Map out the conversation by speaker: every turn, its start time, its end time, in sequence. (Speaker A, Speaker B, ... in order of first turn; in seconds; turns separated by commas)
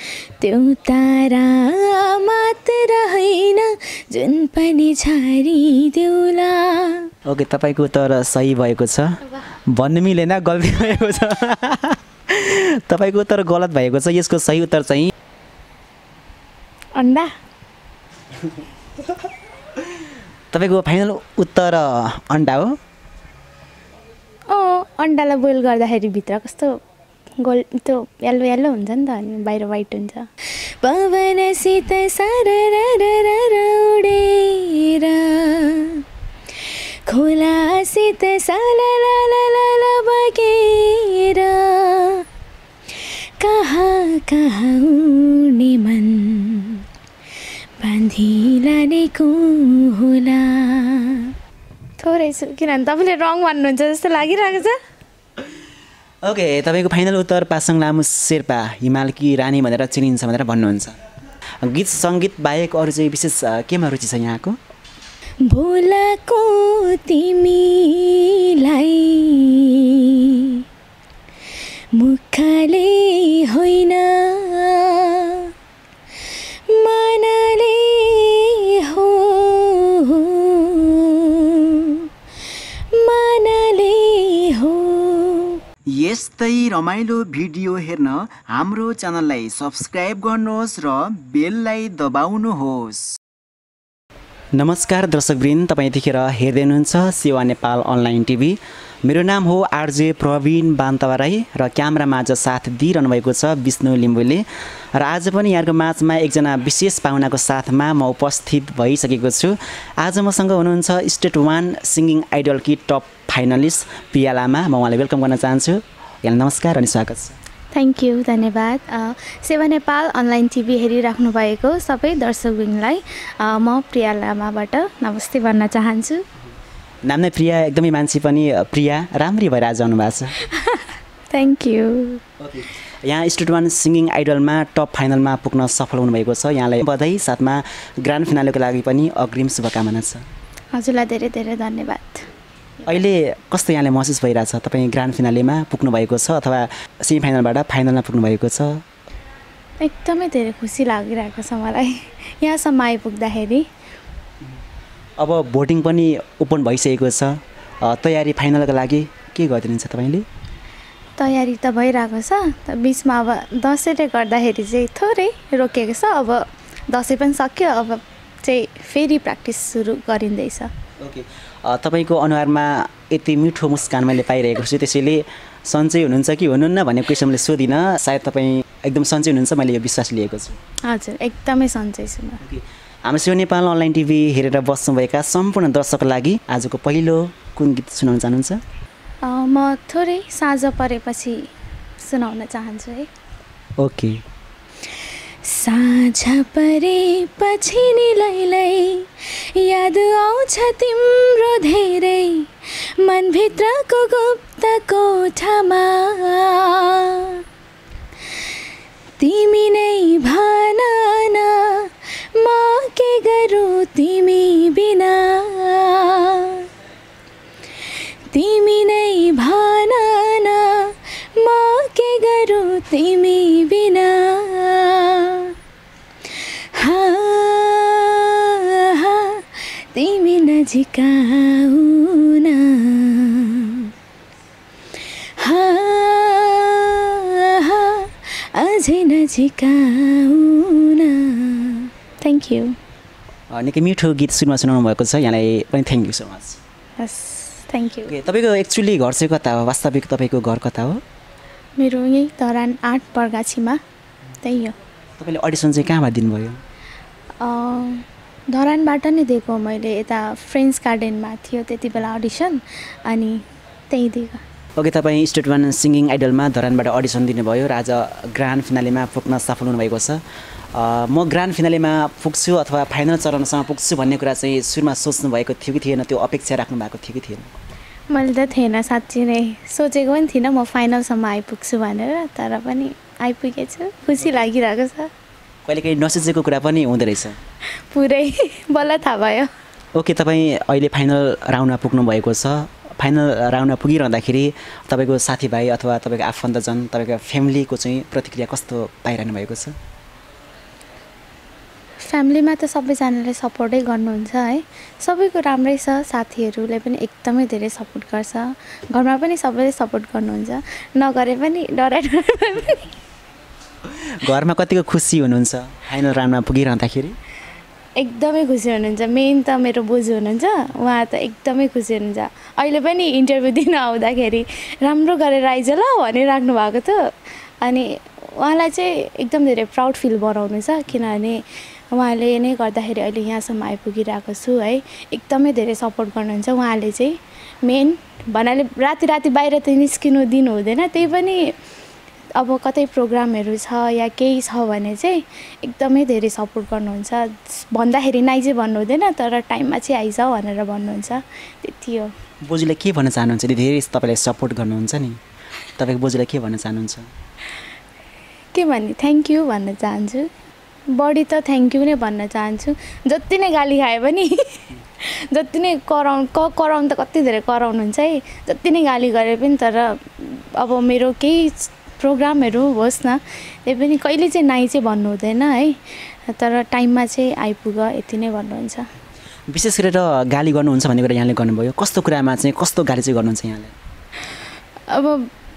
Speaker A: 0.2-7.1, Speaker B: 7.2-15.1, Speaker A: 17.0-17.3, Speaker B: 20.5-22.8, Speaker A: 24.5-26.8, Speaker A: 27.4-36.0, Speaker A: 36.7-42.2, Speaker A: 43.0-46.8, Speaker A: 47.8-51.3, Speaker A: 52.0-54.8, Speaker B: 56.2-61.0, Speaker B: 61.6-64.6, Speaker A: 65.5-70.6, Speaker A: 71.9-75.5, Speaker A: 76.7-82.1, Speaker A: 82.9-85.6, Speaker B: 85.9-93.2, Speaker B: 94.5-117.4, Speaker A: 117.7-126.2, Speaker B: 127.0-130.4, Speaker A: 130.5-132.2, Speaker B: 132.4-140.2, Speaker A: 140.7-142.3, Speaker B: 142.9-148.8, Speaker A: 149.8-153.7, Speaker B: 155.2-160.3, Speaker A: 161.2-170.7, Speaker B: 171.0-180.6, Speaker A: 180.9-182.4, Speaker B: 182.4-188.6, Speaker A: 189.2-191.4, Speaker A: 192.0-193.1, Speaker B: 193.8-194.2, Speaker A: 195.4-207.4, Speaker A: 209.2-216.7, Speaker A: 218.3-225.5, Speaker A: 226.3-233.9, Speaker A: 235.4-242.8, Speaker B: 243.5-246.6, Speaker A: 247.0-248.1, Speaker B: 248.1-251.0, Speaker A: 251.8-253.8, Speaker A: 254.4-254.8, Speaker B: 255.2-256.6, Speaker A: 257.4-264.4, Speaker B: 264.8-270.2, Speaker B: 270.7-277.5, Speaker A: 278.1-285.1, Speaker B: 284.2-284.5, Speaker B: 285.7-287.4, Speaker A: 287.9-289.5, Speaker B: 289.9-299.8, Speaker A: 302.1-312.9, Speaker B: 313.9-317.2, Speaker A: 318.0-327.1, Speaker A: 327.6-341.6, Speaker A: 342.4-352.1, Speaker B: 352.4-355.2, Speaker B: 355.8-357.1, Speaker A: 358.5-360.3, Speaker A: 360.9-378.9, Speaker B: 379.5-383.8, Speaker A: 384.9-385.3